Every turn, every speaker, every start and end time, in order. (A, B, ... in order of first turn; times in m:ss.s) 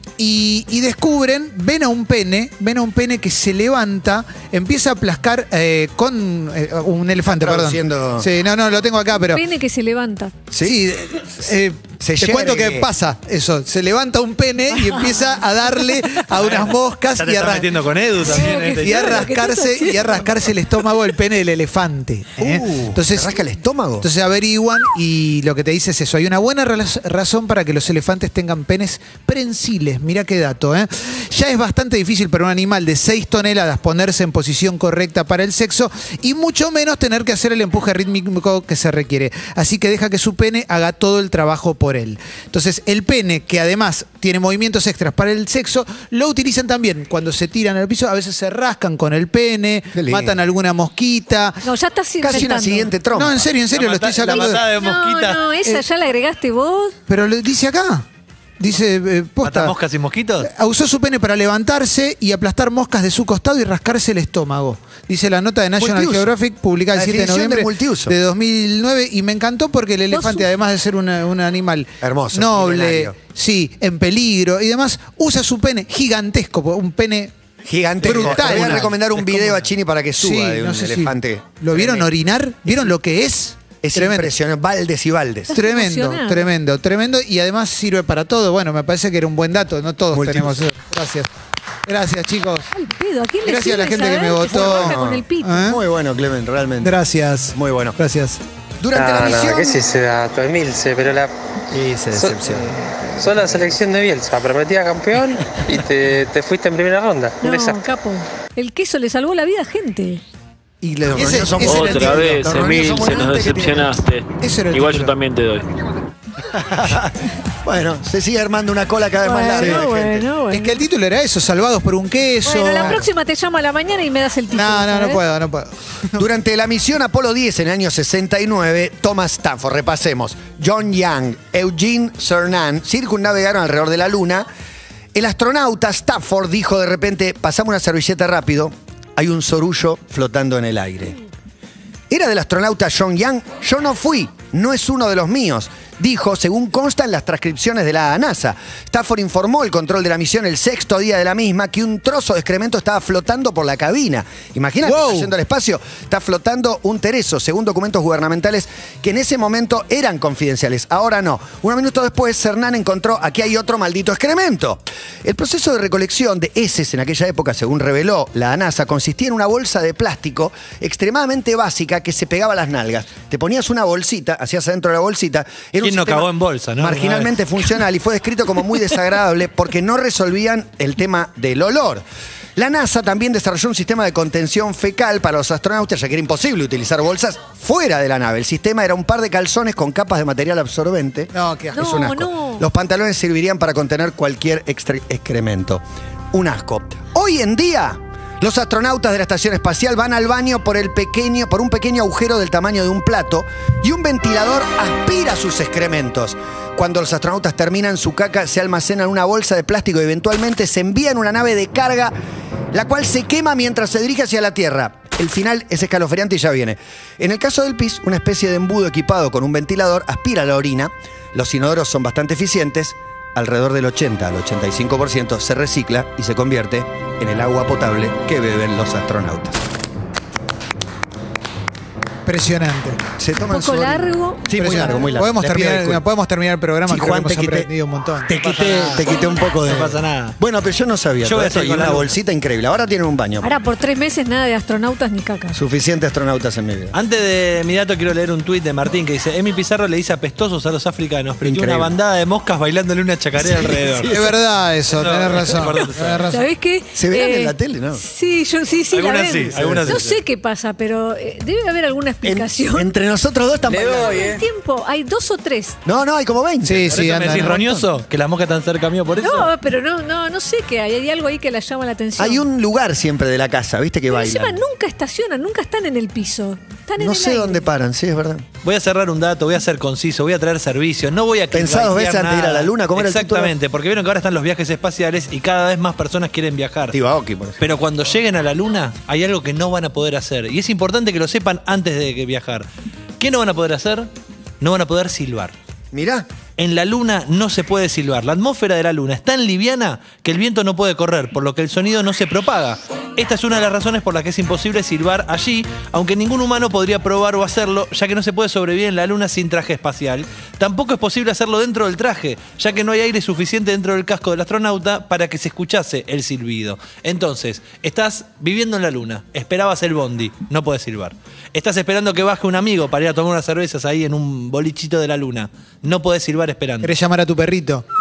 0:00.2-0:09.4 A
0:07.3-0:08.3 B
0:09.2-0:10.3 C
0:10.5-0:10.8 B
0:10.6-0:17.7 A
0:12.0-0:12.9 B
0:16.4-0:19.2 D
0:18.2-0:23.4 A
0:18.2-0:20.3 C
0:22.4-0:24.1 B
0:24.0-0:51.6 A
0:50.0-0:50.4 B
0:51.6-0:52.9 C
0:52.2-0:53.5 B
0:53.1-0:54.6 A
0:53.7-0:55.4 D
0:54.4-0:57.0 C
0:57.1-0:58.0 A
0:58.6-0:59.8 A
0:59.4-1:00.5 D
1:00.4-1:17.3 A
1:05.8-1:06.3 B
1:06.9-1:08.2 B
1:10.1-1:10.5 C
1:12.0-1:13.1 B
1:17.6-1:22.1 B
1:18.0-1:19.7 D
1:18.0-1:19.1 A
1:20.2-1:24.3 A
1:23.8-1:25.5 B
1:25.5-1:26.5 C
1:25.5-1:31.3 A
1:30.1-1:30.7 B
1:31.8-1:32.7 A
1:32.7-1:35.7 C
1:33.4-1:35.8 A
1:34.5-1:37.0 B
1:36.8-1:38.4 A
1:37.5-1:38.0 B
1:38.8-1:39.8 B
1:38.9-1:41.3 E
1:41.7-1:42.8 B
1:42.1-1:42.4 E
1:43.2-1:47.8 E
1:47.4-1:50.2 C
1:50.8-1:54.0 B
1:51.1-1:52.8 A
1:51.6-1:55.7 F
1:54.4-1:55.2 A
1:56.6-2:00.3 B
1:59.2-2:00.8 C
1:59.6-1:59.8 A
2:00.5-2:03.1 A
2:02.4-2:05.2 C
2:04.5-2:06.3 A
2:06.2-2:14.5 B
2:15.1-2:21.2 B
2:22.1-3:02.0 B
2:34.8-2:35.3 A
2:55.8-2:57.8 D
3:02.6-3:32.2 B
3:11.3-3:12.0 A
3:11.7-3:12.7 C
3:32.7-3:49.6 B
3:52.2-3:53.0 A
3:53.2-3:56.0 B
3:53.5-3:55.1 C
3:54.6-3:58.3 A
3:56.9-3:57.7 B
3:58.2-4:03.5 B
3:58.4-4:00.4 D
4:01.2-4:02.2 D
4:03.4-4:05.6 C
4:05.5-4:07.0 B
4:06.9-4:14.1 D
4:11.4-4:11.9 B
4:13.4-4:14.3 B
4:14.0-4:16.4 A
4:14.9-4:16.2 D
4:16.3-4:22.9 C
4:17.0-4:18.0 B
4:18.9-4:20.2 D
4:19.5-4:20.0 B
4:22.2-4:24.3 B
4:23.7-4:24.4 E
4:24.0-4:25.8 C
4:25.8-4:27.4 B
4:26.6-4:27.9 A
4:26.9-4:29.5 D
4:29.2-4:32.4 C
4:32.2-4:34.6 B
4:34.1-4:37.7 C
4:37.0-4:38.5 B
4:38.6-4:47.0 D
4:41.5-4:43.5 B
4:46.9-4:47.6 B
4:47.6-4:52.7 D
4:53.2-4:54.1 D
4:54.6-4:55.5 D
4:55.9-4:56.2 B
4:56.6-5:26.9 D
5:26.8-5:27.8 A